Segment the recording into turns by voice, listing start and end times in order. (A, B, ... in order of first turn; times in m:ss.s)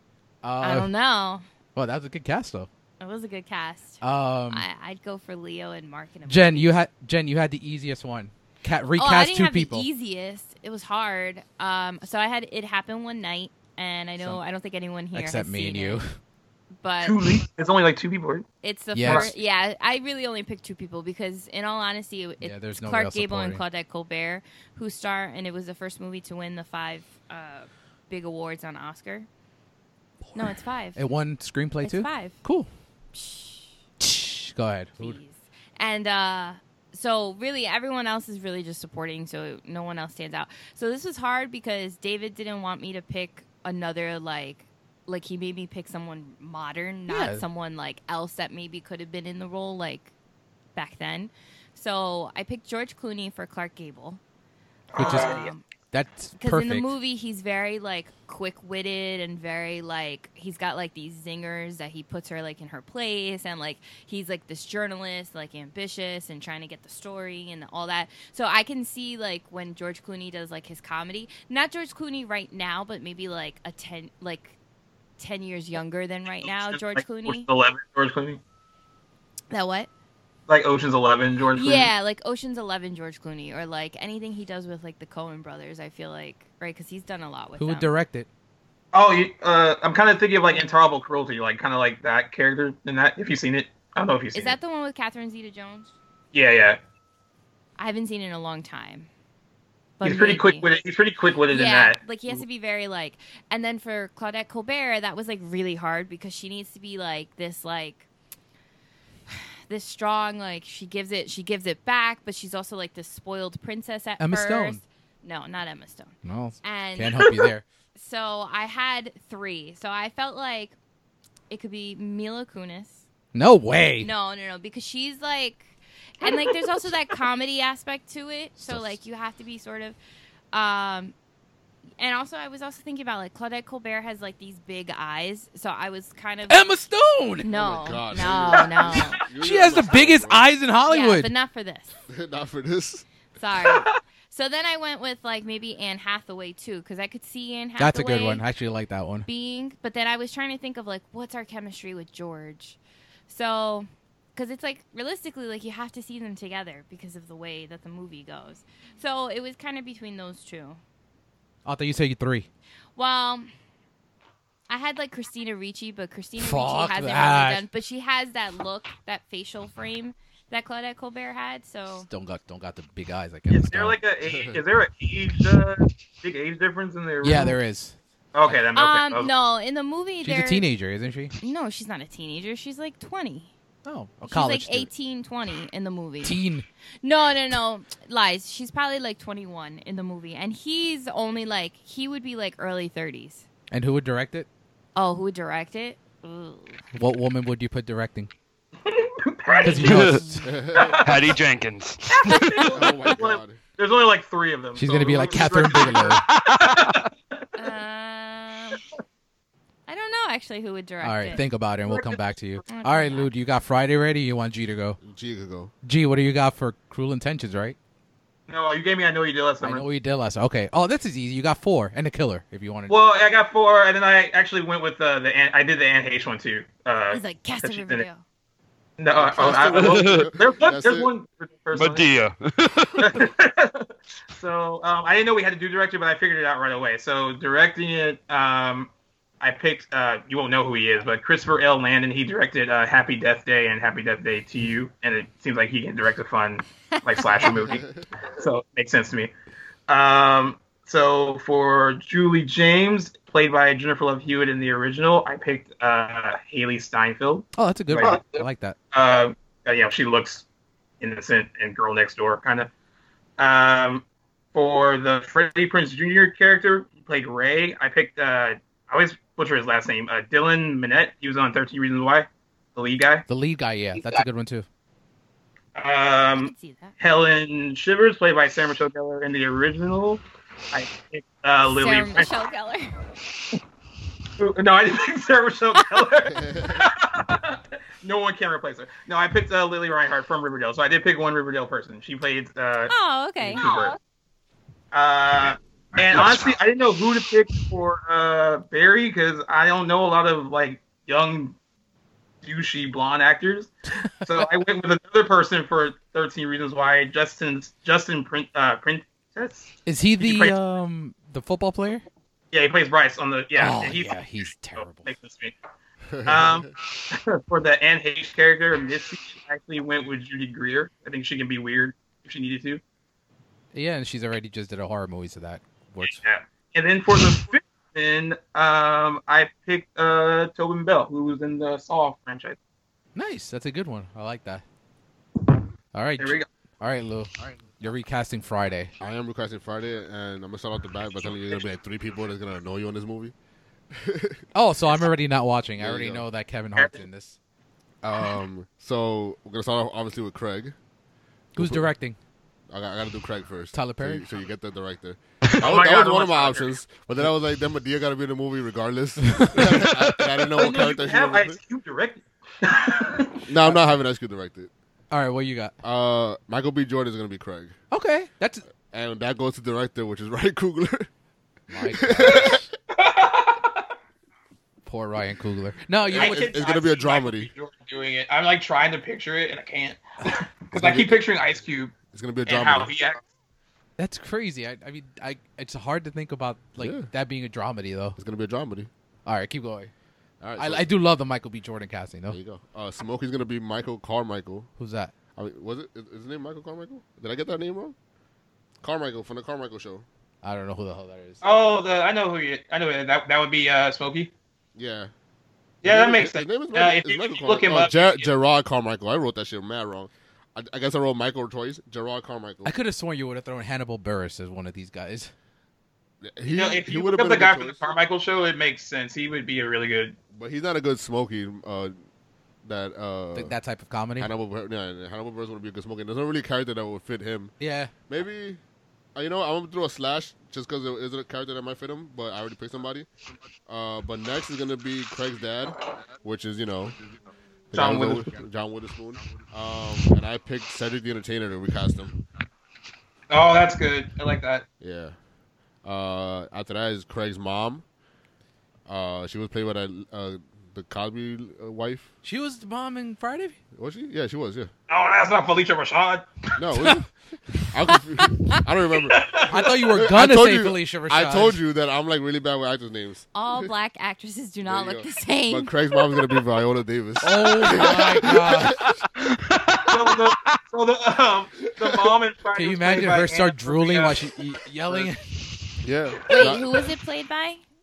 0:00.4-0:00.9 A
0:00.6-0:01.4 B
0:01.8-0:02.7 A
0:03.0-0:06.8 B
0:04.0-0:04.6 A
0:06.3-0:09.9 A
0:09.0-0:16.0 B
0:15.1-0:16.2 A
0:16.8-0:17.4 B
0:17.0-0:18.5 C
0:18.6-0:29.3 B
0:18.9-0:19.3 A
0:19.0-0:19.3 C
0:22.4-0:23.6 A
0:30.4-0:31.0 B
0:31.0-0:32.7 A
0:31.8-0:32.4 B
0:33.1-0:33.7 B
0:34.0-0:35.2 A
0:35.0-0:50.1 B
0:47.1-0:47.5 A
0:50.8-0:54.2 B
0:54.9-0:55.5 C
0:55.0-0:55.6 B
0:55.0-0:55.4 A
0:55.9-0:56.9 A
0:56.4-1:14.6 B
1:15.2-1:17.5 B
1:16.4-1:18.4 C
1:19.5-1:19.9 B
1:20.5-1:21.9 C
1:21.5-1:27.9 B
1:27.6-1:28.3 A
1:28.9-1:34.6 C
1:34.3-1:35.9 B
1:36.3-1:36.8 C
1:37.8-1:39.1 B
1:40.0-1:40.6 B
1:40.0-1:42.0 C
1:41.5-1:48.1 B
1:49.3-1:57.4 B
1:54.2-1:54.8 A
1:56.2-1:57.6 A
1:58.0-2:00.8 B
2:01.5-2:03.0 B
2:03.3-2:04.1 A
2:04.0-2:10.0 B
2:08.6-2:08.9 A
2:10.5-2:11.1 B
2:12.0-2:16.7 B
2:16.5-2:17.5 A
2:17.4-2:19.2 B
2:17.5-2:20.5 D
2:18.6-2:19.1 C
2:19.4-2:21.3 A
2:20.9-2:22.0 B
2:22.1-2:23.0 D
2:23.4-2:28.4 B
2:23.6-2:24.0 C
2:27.8-2:29.3 A
2:29.3-2:40.8 B
2:41.6-2:42.5 A
2:43.0-2:43.5 B
2:44.7-2:52.1 B
2:46.4-2:47.6 A
2:52.0-2:54.0 A
2:53.5-2:57.6 C
2:54.3-2:54.6 D
2:57.2-2:58.0 A
2:58.3-2:59.3 C
2:58.8-3:00.7 B
3:00.2-3:01.4 A
3:01.4-3:03.5 B
3:03.8-3:04.9 A
3:04.3-3:06.4 B
3:06.2-3:06.6 A
3:07.0-3:13.5 B
3:13.7-3:14.5 A
3:15.0-3:16.8 B
3:16.9-3:18.3 A
3:18.8-3:20.2 C
3:19.6-3:20.0 B
3:19.6-3:20.5 A
3:19.8-3:20.2 E
3:20.4-3:21.0 D
3:20.7-3:21.4 C
3:21.0-3:22.6 E
3:22.1-3:27.5 C
3:22.4-3:22.7 B
3:22.7-3:23.6 D
3:24.8-3:26.3 A
3:26.4-3:26.9 E
3:27.6-3:28.8 B
3:29.9-3:31.4 B
3:31.0-3:35.0 A
3:31.8-3:32.2 C
3:32.7-3:33.3 B
3:35.0-3:35.7 D
3:35.8-3:37.8 A
3:38.5-3:39.9 C
3:39.6-3:43.0 A
3:42.9-3:48.1 C
3:47.1-3:48.2 B
3:49.0-3:52.1 C
3:49.2-3:51.1 D
3:49.4-3:50.3 E
3:51.7-3:53.2 E
3:53.0-4:09.3 C
4:07.4-4:08.0 D
4:09.9-4:20.4 C
4:17.6-4:18.8 A
4:21.0-4:22.7 C
4:23.4-4:33.2 C
4:33.3-4:34.7 A
4:35.8-4:42.3 C
4:36.4-4:37.0 B
4:41.6-4:43.0 B
4:44.4-4:54.0 C
4:46.3-4:46.8 D
4:52.9-4:54.0 B
4:54.9-5:01.6 C
5:02.4-5:10.6 C
5:04.0-5:04.5 A
5:09.9-5:12.0 A
5:12.5-5:15.6 C
5:13.6-5:15.1 A
5:16.1-5:16.7 D
5:16.3-5:22.8 C
5:23.7-5:26.2 A
5:26.0-5:32.6 C
5:33.2-5:34.6 A
5:35.9-5:38.9 A
5:36.2-5:36.5 C
5:39.0-5:43.3 D
5:43.9-5:44.4 D
5:44.5-5:47.4 A
5:45.8-5:46.3 D
5:46.8-5:47.0 C
5:48.0-5:50.8 D
5:51.6-5:51.9 D
5:51.6-5:52.2 A
5:52.7-6:01.6 D
5:53.7-5:54.3 A
5:55.6-5:56.8 C
5:59.2-5:59.9 A
6:00.5-6:03.4 C
6:03.4-6:04.7 D
6:05.1-6:05.8 A
6:05.8-6:07.8 D
6:07.9-6:08.7 A
6:08.9-6:11.1 D
6:11.7-6:12.6 A
6:11.9-6:12.6 D
6:12.3-6:13.9 C
6:14.8-6:16.5 A
6:16.1-6:17.5 D
6:16.1-6:23.2 C
6:20.7-6:21.2 D
6:22.1-6:22.9 D
6:24.0-6:28.2 A
6:26.8-6:27.1 D
6:28.2-6:28.9 D
6:29.3-6:29.9 A
6:30.4-6:30.9 D
6:30.6-6:32.4 A
6:32.3-6:34.7 D
6:34.8-6:35.1 A
6:35.4-6:38.0 D
6:38.8-6:40.1 D
6:40.4-6:41.4 A
6:41.4-6:44.3 C
6:44.8-6:45.1 D
6:45.8-6:48.3 C
6:45.8-6:52.7 D
6:52.6-6:55.3 A
6:56.2-6:57.8 D
6:56.5-7:00.2 C
7:00.3-7:02.0 D
7:02.6-7:03.6 D
7:03.4-7:04.3 A
7:04.2-7:07.5 D
7:07.6-7:07.9 A
7:08.1-7:08.6 D
7:09.2-7:13.1 D
7:13.7-7:17.0 D
7:17.7-7:22.2 D
7:17.7-7:18.3 C
7:23.3-7:24.6 C
7:24.8-7:25.2 D
7:25.8-7:27.8 D
7:28.9-7:32.1 D
7:32.2-7:33.6 A
7:33.7-7:34.7 D
7:34.9-7:36.3 C
7:36.6-7:43.7 D
7:36.7-7:37.0 A
7:39.1-7:39.8 C
7:39.5-7:41.6 A
7:43.3-7:46.2 B
7:44.6-7:49.0 D
7:47.2-7:48.8 A
7:49.5-7:49.8 E
7:49.8-7:54.3 C
7:51.8-7:52.1 D
7:52.5-7:55.8 A
7:55.8-7:56.7 D
7:56.3-7:57.6 B
7:56.4-7:56.6 C